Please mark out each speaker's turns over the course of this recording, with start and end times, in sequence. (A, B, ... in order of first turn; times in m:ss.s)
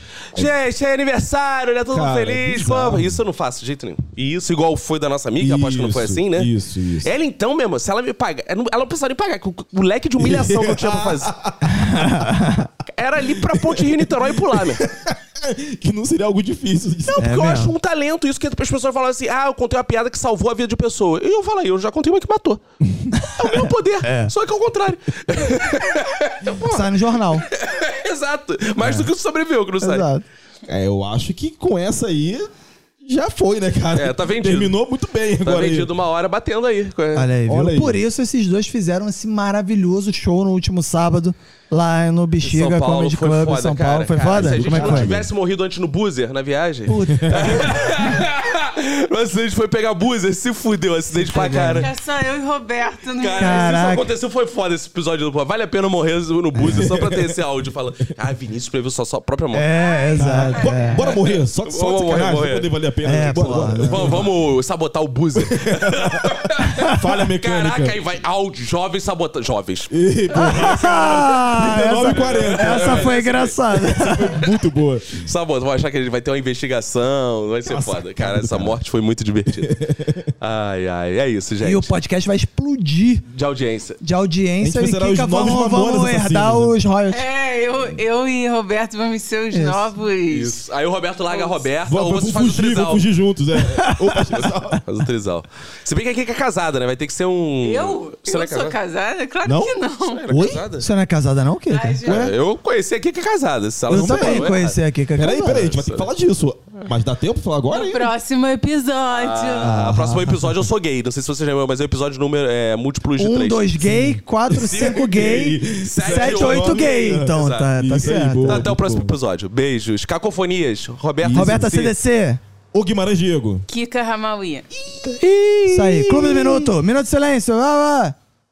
0:00.3-0:11.3 A
0:01.9-0:03.2 B
0:05.4-0:07.1 B
0:10.2-0:12.2 B
0:11.7-0:12.7 C
0:12.9-0:14.8 A
0:13.3-0:17.3 B
0:17.1-0:22.6 A
0:17.2-0:17.7 C
0:23.2-0:26.9 A
0:23.2-0:23.5 C
0:24.0-0:24.3 C
0:26.5-0:27.5 C
0:27.4-0:30.1 A
0:28.8-0:29.1 C
0:29.8-0:30.2 C
0:30.7-0:32.5 B
0:33.0-0:35.9 B
0:33.9-0:34.8 A
0:35.4-0:37.3 A
0:37.2-0:45.2 C
0:37.5-0:38.0 B
0:42.4-0:51.9 A
0:44.3-0:45.3 B
0:46.9-0:47.9 C
0:47.2-0:47.7 B
0:51.3-0:51.9 C
0:51.3-0:53.8 D
0:53.2-0:59.7 A
0:53.4-0:54.1 C
0:56.6-0:57.4 B
0:56.6-0:56.9 C
0:59.5-1:01.1 C
1:00.0-1:01.1 D
1:00.2-1:04.3 B
1:01.0-1:02.7 A
1:03.0-1:04.2 C
1:03.8-1:09.9 A
1:05.4-1:08.0 B
1:06.7-1:07.1 C
1:09.9-1:15.2 B
1:10.3-1:14.5 C
1:11.7-1:13.6 A
1:15.1-1:19.8 A
1:17.7-1:18.8 B
1:19.5-1:20.3 B
1:20.4-1:21.9 A
1:21.6-1:23.3 C
1:23.3-1:24.0 A
1:24.0-1:27.2 C
1:24.6-1:26.7 B
1:27.1-1:30.6 D
1:29.5-1:29.8 C
1:30.3-1:33.0 A
1:31.3-1:31.6 D
1:31.8-1:34.8 B
1:33.6-1:34.2 C
1:34.3-1:38.8 A
1:37.6-1:40.3 D
1:39.4-1:39.8 B
1:40.0-1:40.9 A
1:40.3-1:40.7 B
1:40.8-1:42.3 C
1:41.7-1:42.3 D
1:42.0-1:44.8 A
1:43.9-1:44.5 B
1:43.9-1:45.8 C
1:45.2-1:48.1 B
1:45.5-1:46.1 A
1:47.7-1:49.7 D
1:49.1-1:53.9 A
1:49.6-1:50.6 C
1:53.2-1:58.7 C
1:53.8-1:59.1 B
1:54.5-2:02.0 A
2:01.2-2:01.8 B
2:01.3-2:02.4 C
2:02.7-2:03.6 B
2:03.7-2:04.7 D
2:05.0-2:06.6 A
2:05.7-2:08.2 C